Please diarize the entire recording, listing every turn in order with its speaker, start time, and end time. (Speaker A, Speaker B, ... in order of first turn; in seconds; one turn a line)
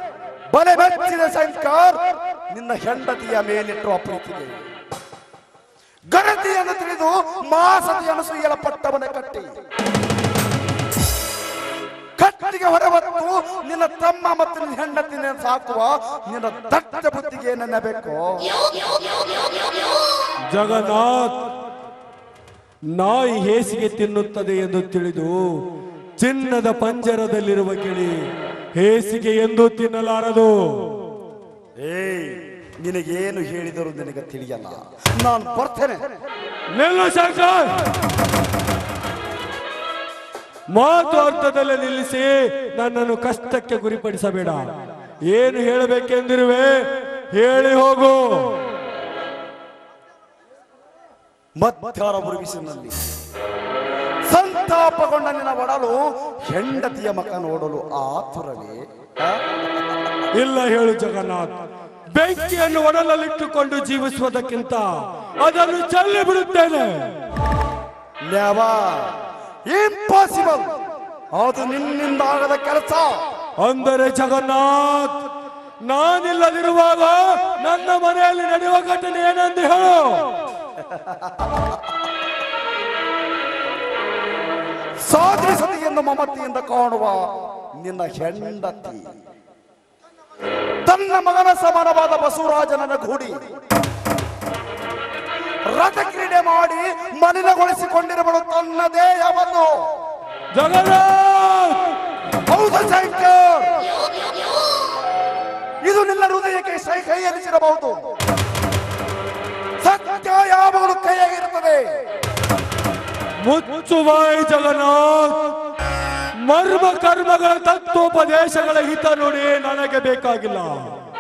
Speaker A: 0.5-4.6
Speaker A: 6.1-9.5
Speaker A: 12.2-18.5
Speaker B: 20.5-21.4
Speaker B: 22.9-25.5
Speaker B: 26.2-28.2
Speaker B: 28.8-30.8
Speaker A: 31.8-36.0
Speaker B: 36.8-37.9
Speaker B: 40.7-44.6
Speaker B: 45.3-46.8
Speaker B: 47.3-48.6
Speaker A: 51.6-53.0
Speaker A: 54.3-59.4
Speaker B: 60.3-61.6
Speaker B: 62.1-64.9
Speaker B: 65.4-67.1
Speaker A: 68.3-70.7
Speaker A: 71.3-73.2
Speaker B: 73.6-75.2
Speaker B: 75.8-80.3
Speaker A: 85.1-87.3
Speaker A: 87.8-89.1
Speaker A: 90.8-93.4
Speaker A: 95.7-99.9
Speaker B: 100.5-101.9
Speaker A: 102.5-103.9
Speaker A: 105.8-108.0
Speaker A: 109.8-111.9
Speaker B: 113.4-115.6
Speaker B: 116.4-120.9